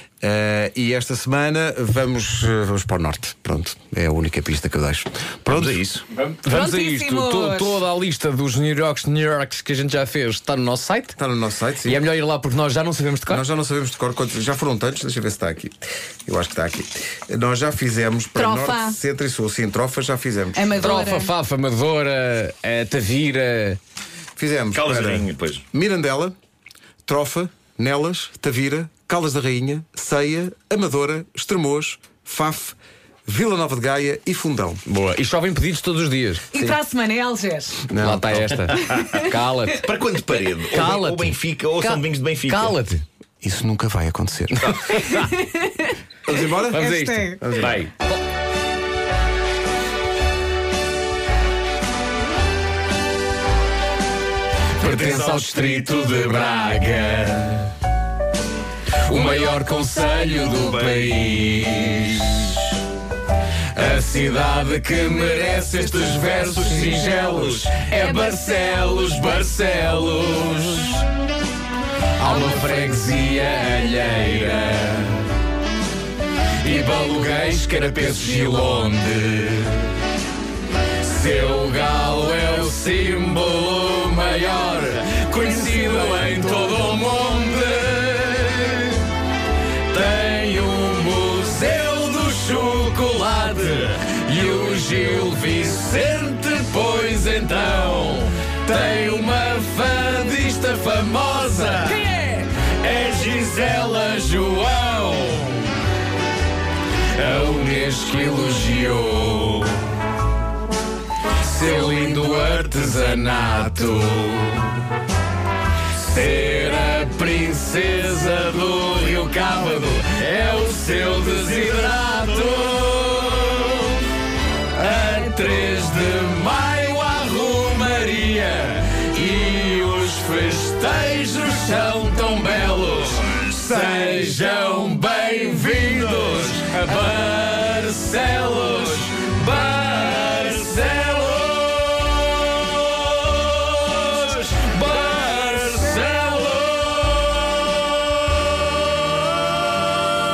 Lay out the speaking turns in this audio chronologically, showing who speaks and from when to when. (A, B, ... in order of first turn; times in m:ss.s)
0:00.2-0:05.8 A
0:05.5-0:06.0 B
0:06.1-0:11.2 C
0:06.5-0:07.7 D
0:11.2-0:12.0 A
0:11.8-0:13.4 C
0:13.3-0:20.9 A
0:18.3-0:19.0 D
0:20.5-0:21.3 D
0:20.8-0:23.8 C
0:24.4-0:26.3 A
0:24.7-0:25.6 B
0:27.0-0:32.8 A
0:33.3-0:34.8 A
0:34.8-0:36.8 C
0:36.5-0:37.8 D
0:37.9-0:39.9 C
0:37.9-0:38.4 A
0:38.5-0:39.2 B
0:39.8-0:42.8 B
0:40.7-0:43.0 C
0:43.4-0:45.2 A
0:44.7-0:45.3 C
0:46.2-0:47.8 A
0:46.7-0:48.2 C
0:46.8-0:47.4 D
0:47.6-0:47.9 B
0:54.8-0:57.7 C
0:59.0-1:02.7 C
1:03.7-1:11.0 C
1:12.2-1:15.3 C
1:16.6-1:19.9 C
1:21.0-1:29.1 C
1:29.9-1:45.7 C
1:47.1-1:49.7 C
1:51.4-1:54.8 C
1:56.0-2:04.0 C
2:04.7-2:27.8 C